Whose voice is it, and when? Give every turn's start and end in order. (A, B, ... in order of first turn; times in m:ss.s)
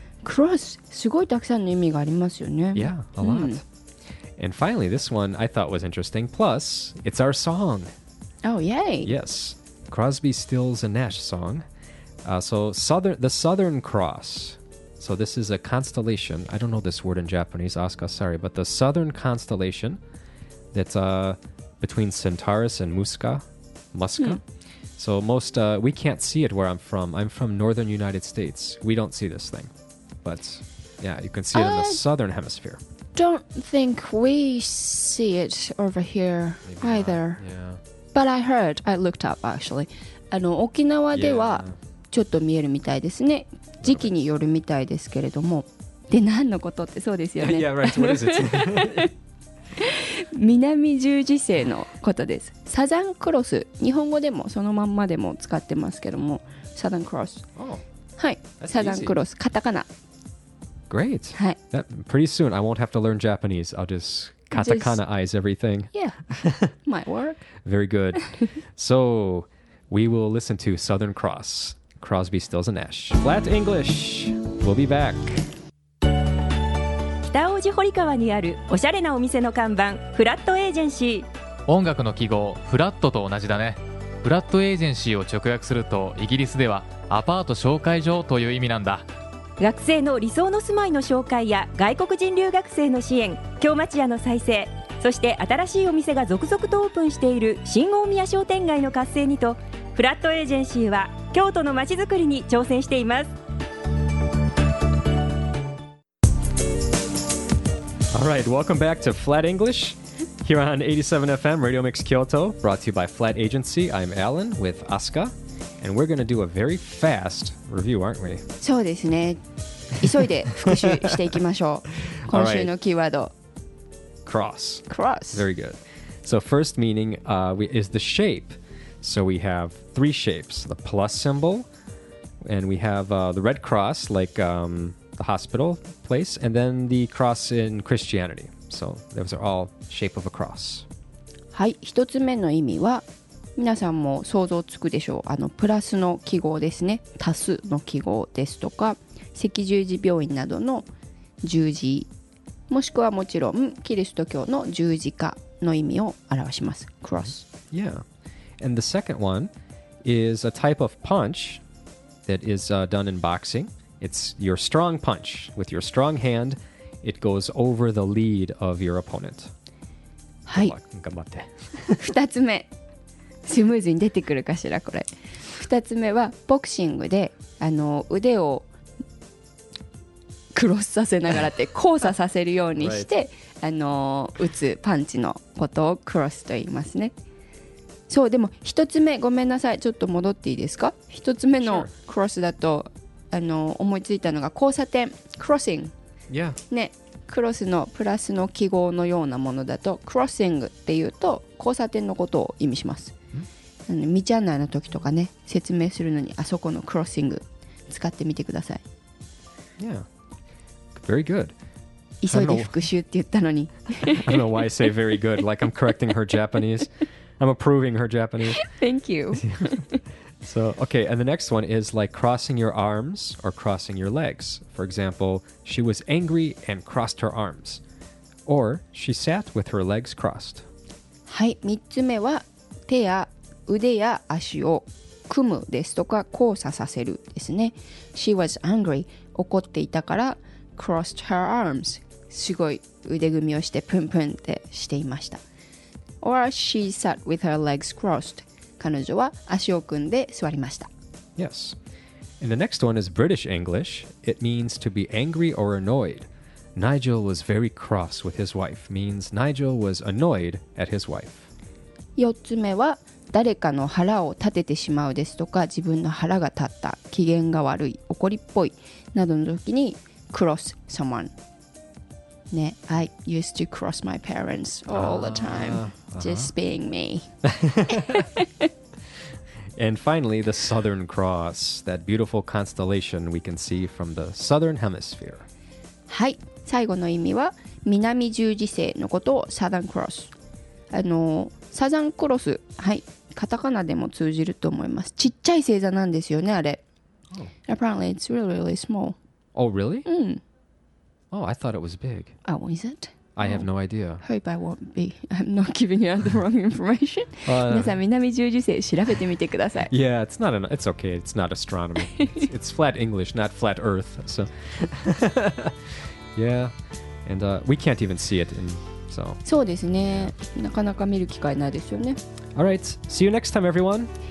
0:00.2-0:03.6 A
0:02.8-0:03.6 B
0:04.4-0:07.9 B
0:08.4-0:09.1 A
0:09.0-0:11.6 B
0:12.2-0:20.0 B
0:20.7-0:24.4 B
0:25.0-0:29.7 B
0:30.2-0:32.8 B
0:31.5-0:32.0 A
0:33.2-0:37.4 A
0:36.7-0:37.8 B
0:38.1-0:49.1 A
0:41.1-0:41.8 B
0:43.8-0:44.1 B
0:47.4-0:49.1 B
0:49.8-0:57.4 A
0:57.6-0:57.8 B
0:58.2-0:59.9 A
0:58.6-0:59.2 B
1:00.9-1:06.7 B
1:04.5-1:05.0 A
1:05.9-1:06.2 A
1:06.8-1:07.5 A
1:07.6-1:15.5 B
1:17.3-1:21.3 C
1:21.7-1:29.1 D
1:29.6-1:43.3 C
1:48.1-1:58.5 B
1:58.6-1:59.4 A
2:00.0-2:03.3 A
2:00.6-2:01.2 B
2:02.1-2:02.7 B
2:04.2-2:11.7 B
2:04.9-2:05.4 A
2:12.4-2:20.9 B
2:21.5-2:23.0 A
2:23.6-2:30.9 A
2:31.4-2:32.1 A
2:32.7-2:37.4 A
2:37.2-2:38.0 B
2:38.6-2:39.5 B
2:40.0-2:41.6 B
2:42.3-2:49.5 B
2:50.5-2:50.7 A
2:50.5-2:52.0 B
2:52.0-2:52.7 A
2:53.4-2:58.7 A
3:00.5-3:07.1 A
3:02.8-3:03.1 B
3:08.1-3:15.9 A
3:11.6-3:11.9 B
3:16.3-3:16.6 B
3:16.7-3:23.1 A
3:23.9-3:28.8 A
3:29.8-3:30.1 B
3:31.0-3:31.6 B
3:32.2-3:34.6 A
3:32.3-3:32.8 B
3:34.1-3:38.6 B
3:38.5-3:40.0 A
3:39.4-3:39.8 B
3:40.4-3:47.8 B
3:48.5-3:50.7 B
3:51.3-4:05.4 A
4:06.2-4:10.9 A
4:11.4-4:11.8 B
4:12.4-4:21.5 B
4:22.2-4:31.3 A
4:32.5-4:37.3 A
4:34.9-4:36.5 B
4:37.4-4:38.3 B
4:38.0-4:38.5 A
4:39.8-4:45.4 B
4:46.1-4:50.3 A
4:50.9-4:56.8 A
4:57.7-4:59.2 A
4:59.6-5:00.1 B
5:00.1-5:00.4 A
5:01.3-5:02.3 B
5:02.4-5:03.7 A
5:03.4-5:04.2 B
5:04.2-5:09.9 A
5:07.4-5:08.0 B
5:09.9-5:15.8 B
5:16.4-5:16.7 B
5:17.3-5:19.4 B
5:19.4-5:22.2 A
5:22.6-5:24.1 B